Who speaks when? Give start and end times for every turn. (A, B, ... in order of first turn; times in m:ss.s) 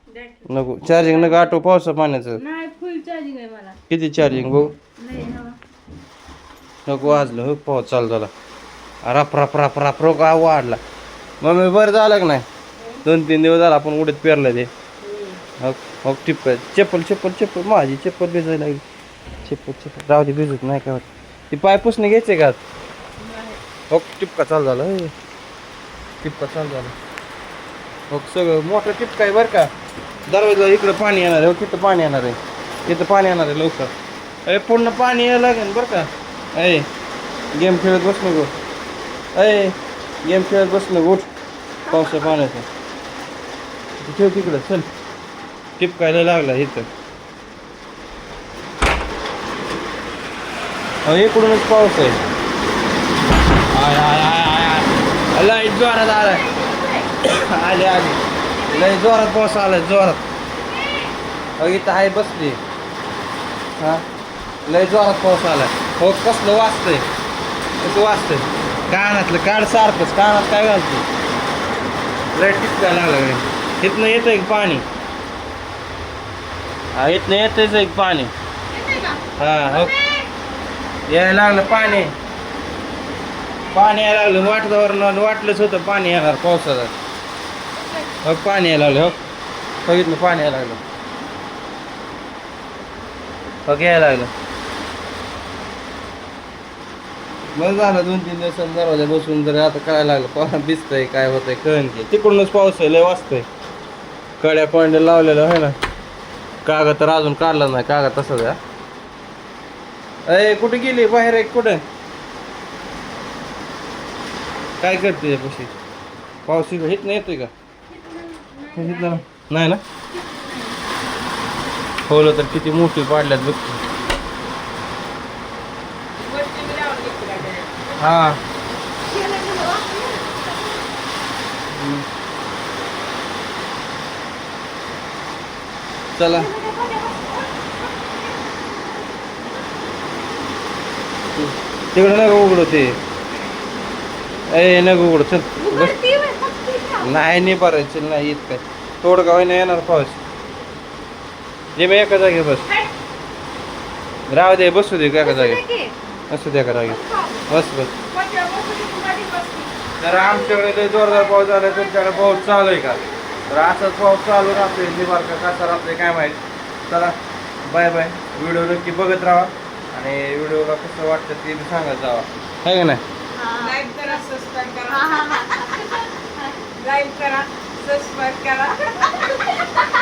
0:00.1-0:01.5 A
0:00.5-0:02.4 B
0:02.4-0:03.8 A
0:03.9-0:04.8 B
0:05.0-0:05.6 A
0:06.9-0:08.3 B
0:09.0-0:10.8 B
0:11.4-0:12.4 B
0:13.0-0:14.7 B
0:15.1-0:15.4 A
0:15.6-0:18.8 B
0:19.4-0:22.6 B
0:23.2-0:23.6 A
0:23.9-0:25.1 B
0:26.2-0:26.9 B
0:28.1-0:29.7 B
0:30.3-0:33.9 B
0:34.5-0:36.9 B
0:37.5-0:38.5 B
0:39.4-0:41.3 B
0:41.9-0:42.4 A
0:41.9-0:42.7 B
0:44.0-0:44.9 B
0:45.8-0:46.9 B
0:51.0-0:52.2 B
0:53.7-0:56.5 B
0:56.5-0:57.1 A
0:57.2-1:00.2 B
1:00.6-1:01.1 A
1:01.6-1:02.6 B
1:03.8-1:04.0 B
1:04.7-1:07.1 B
1:07.8-1:11.1 B
1:12.4-1:14.8 B
1:17.0-1:18.3 B
1:18.7-1:20.3 A
1:19.4-1:19.9 B
1:21.1-1:22.1 B
1:21.6-1:22.0 A
1:23.7-1:27.0 B
1:27.8-1:28.2 A
1:28.2-1:29.2 B
1:29.8-1:30.8 B
1:33.7-1:34.3 B
1:37.6-1:43.5 B
1:44.4-1:45.8 B
1:46.6-1:48.6 B
1:50.3-1:51.8 B
1:54.8-1:55.7 B
1:56.5-1:57.5 B
1:57.9-1:59.2 A
1:58.8-1:59.8 B
2:00.1-2:00.8 A
2:02.1-2:03.8 B
2:06.2-2:07.9 C
2:08.0-2:08.4 B
2:09.0-2:10.9 A
2:11.7-2:12.1 B
2:16.2-2:16.5 B
2:16.3-2:19.9 A
2:21.4-2:23.0 B
2:24.5-2:26.0 B
2:25.6-2:27.2 A
2:27.0-2:30.2 B
2:31.8-2:32.7 B
2:32.7-2:32.9 A
2:34.3-2:35.6 B
2:35.2-2:36.0 A
2:36.3-2:37.9 B
2:36.8-2:43.9 A
2:40.0-2:53.0 B
2:53.4-2:56.7 A
2:53.6-2:55.4 C
2:56.8-2:58.8 C
2:58.7-2:59.8 A